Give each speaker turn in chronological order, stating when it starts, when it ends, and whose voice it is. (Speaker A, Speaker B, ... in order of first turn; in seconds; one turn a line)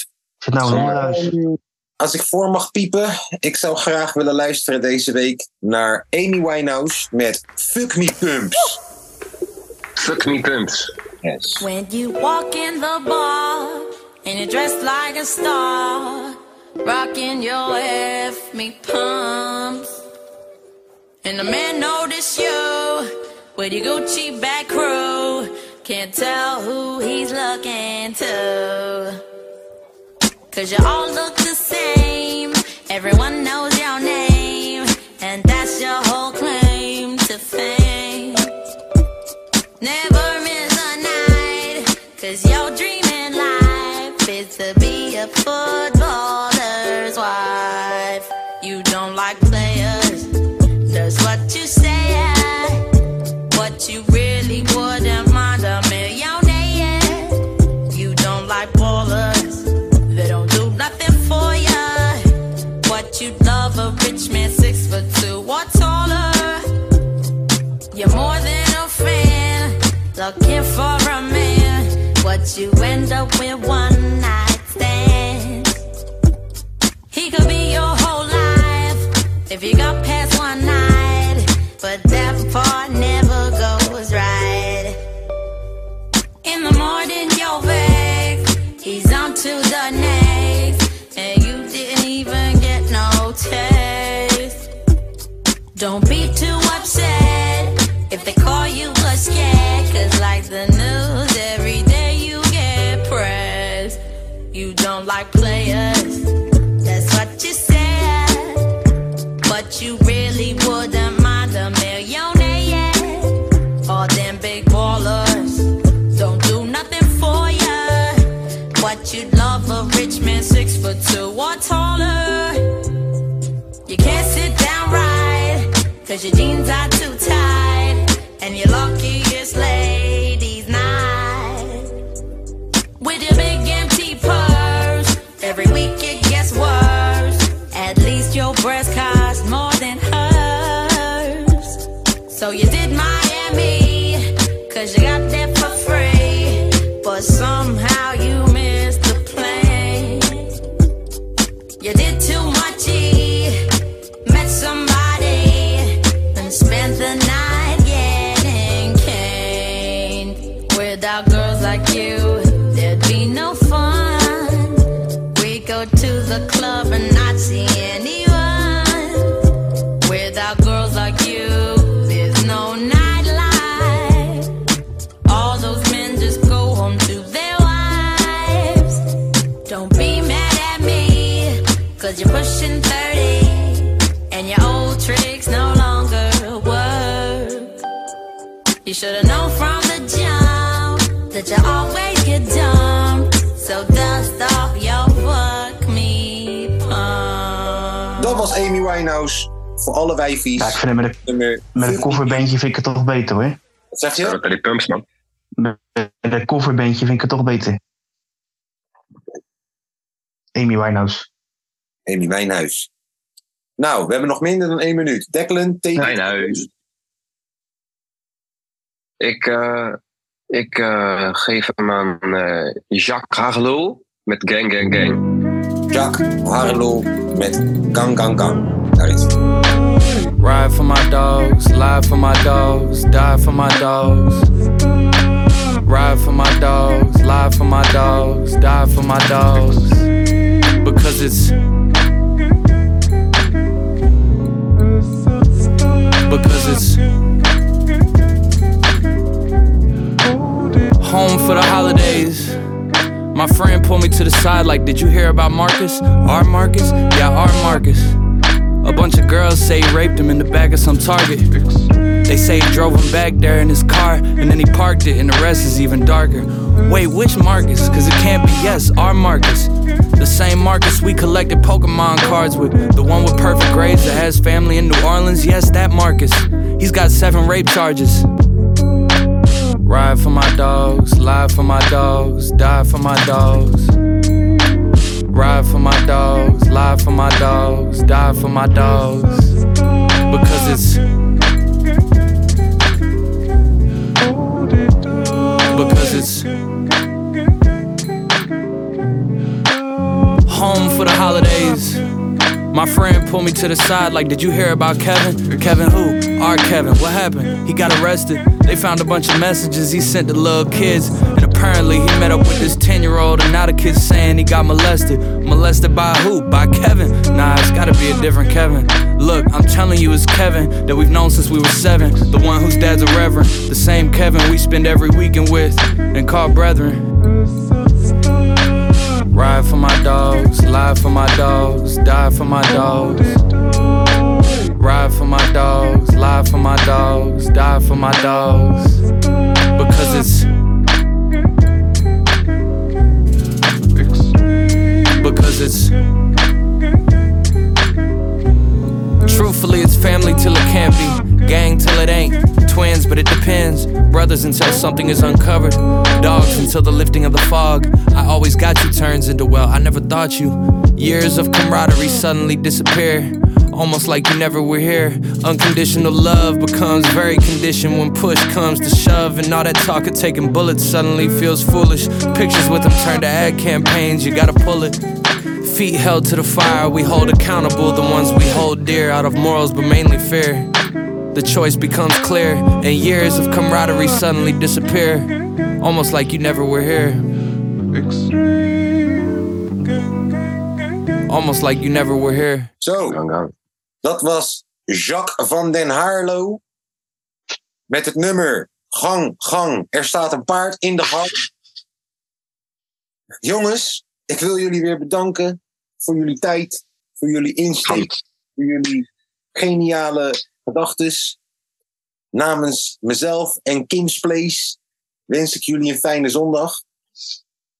Speaker A: 0.4-1.3
Speaker B: 0.6-8.8
Speaker C: 10.0-10.9
Speaker B: 11.2-11.6
Speaker D: 11.6-20.0
Speaker D: 21.2-29.2
Speaker D: 30.5-38.5
Speaker D: 39.8-50.3
Speaker D: 50.9-52.8
Speaker D: 53.5-62.2
Speaker D: 62.8-66.6
Speaker D: 67.9-75.8
Speaker D: 77.1-85.0
Speaker D: 86.4-94.7
Speaker D: 95.7-104.0
Speaker D: 104.5-106.3
Speaker D: 106.8-108.6
Speaker D: 109.4-118.2
Speaker D: 118.8-122.6
Speaker D: 123.9-131.9
Speaker D: 133.0-150.6
Speaker D: 151.8-153.6
Speaker D: 154.2-169.4
Speaker D: 170.0-174.5
Speaker D: 175.2-179.1
Speaker D: 179.7-187.8
Speaker D: 188.8-198.4
Speaker B: 198.2-202.4
Speaker A: 200.6-201.2
Speaker A: 201.7-203.6
Speaker B: 203.9-204.4
Speaker C: 204.2-205.0
Speaker A: 205.6-207.8
Speaker A: 210.5-211.3
Speaker B: 212.1-212.9
Speaker B: 213.8-216.7
Speaker C: 216.0-216.7
Speaker C: 219.2-220.0
Speaker C: 220.5-225.2
Speaker B: 225.9-229.3
Speaker E: 230.4-234.4
Speaker E: 235.8-240.1
Speaker E: 240.8-241.5
Speaker E: 246.3-247.0
Speaker E: 251.0-252.6
Speaker E: 253.3-258.2
Speaker E: 258.8-261.5
Speaker E: 262.2-278.3
Speaker E: 279.8-283.9
Speaker E: 285.3-289.6
Speaker E: 290.3-291.0
Speaker E: 295.7-296.5
Speaker E: 300.5-302.0
Speaker E: 302.7-327.0
Speaker E: 329.3-333.4
Speaker E: 334.8-339.0
Speaker E: 339.7-340.5
Speaker E: 345.2-345.9
Speaker E: 349.2-375.0
Speaker E: 375.6-380.7
Speaker E: 381.3-387.2
Speaker E: 391.3-392.7
Speaker B: 392.8-393.2
Speaker C: 393.1-393.5
Speaker B: 394.0-396.6
Speaker B: 397.9-401.4
Speaker B: 403.4-411.4
Speaker C: 407.9-408.1
Speaker B: 412.3-414.8
Speaker B: 415.3-416.8